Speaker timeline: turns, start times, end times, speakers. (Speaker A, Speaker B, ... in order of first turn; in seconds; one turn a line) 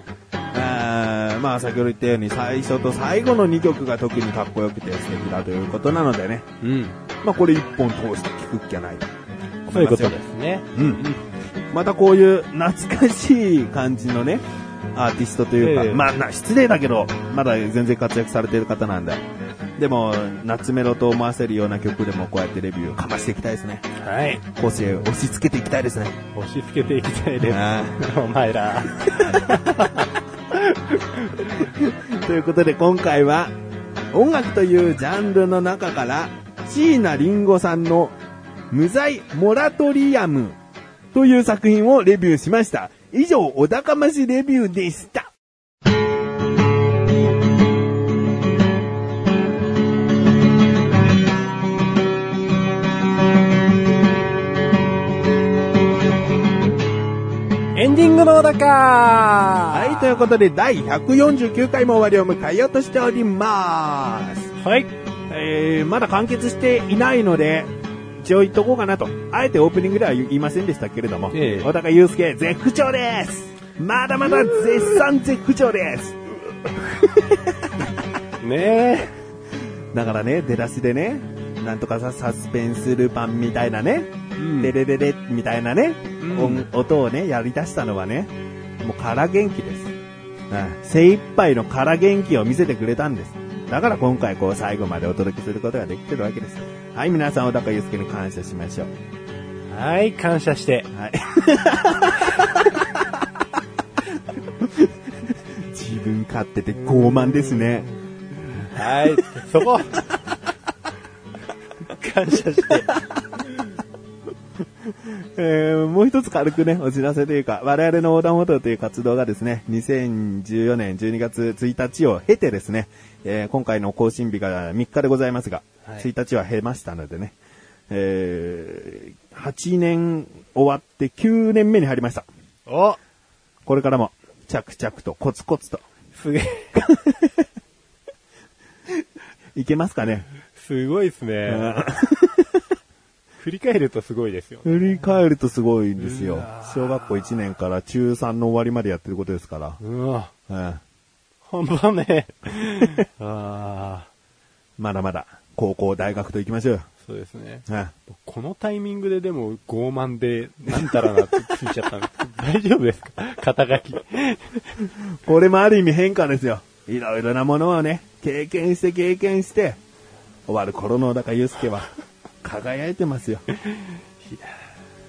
Speaker A: 0.5-6.5
Speaker B: 6.6-7.0
Speaker A: 7.2-9.1
Speaker A: 9.7-10.2
Speaker B: 9.7-11.2
Speaker A: 10.8-11.0
Speaker A: 11.7-19.2
Speaker B: 15.6-16.1
Speaker A: 19.8-26.2
Speaker B: 24.0-24.4
Speaker B: 26.3-31.7
Speaker A: 27.4-28.0
Speaker A: 29.0-29.6
Speaker A: 31.6-33.5
Speaker A: 34.1-38.2
Speaker A: 38.7-40.6
Speaker A: 41.1-45.3
Speaker B: 57.7-60.2
Speaker A: 59.7-64.5
Speaker B: 64.6-64.9
Speaker A: 65.3-77.5
Speaker B: 71.3-71.7
Speaker B: 78.4-79.2
Speaker A: 79.9-89.9
Speaker B: 84.4-84.7
Speaker B: 86.2-86.7
Speaker A: 90.5-98.9
Speaker B: 99.7-100.9
Speaker A: 100.9-103.1
Speaker A: 104.6-107.9
Speaker B: 106.8-107.8
Speaker B: 108.5-110.1
Speaker B: 111.9-112.9
Speaker A: 115.0-127.4
Speaker A: 127.9-132.3
Speaker B: 132.7-133.0
Speaker A: 133.7-135.8
Speaker B: 136.2-136.8
Speaker A: 136.8-137.5
Speaker A: 139.6-140.3
Speaker B: 140.6-141.9
Speaker A: 141.5-142.6
Speaker B: 143.4-145.1
Speaker A: 144.7-149.8
Speaker B: 146.0-147.3
Speaker B: 149.8-150.3
Speaker A: 150.5-150.8
Speaker B: 151.4-154.1
Speaker A: 154.8-156.9
Speaker B: 157.0-164.8
Speaker A: 157.7-157.9
Speaker A: 160.7-161.5
Speaker A: 164.8-169.8
Speaker A: 170.5-171.9
Speaker A: 172.4-173.4
Speaker B: 173.7-174.6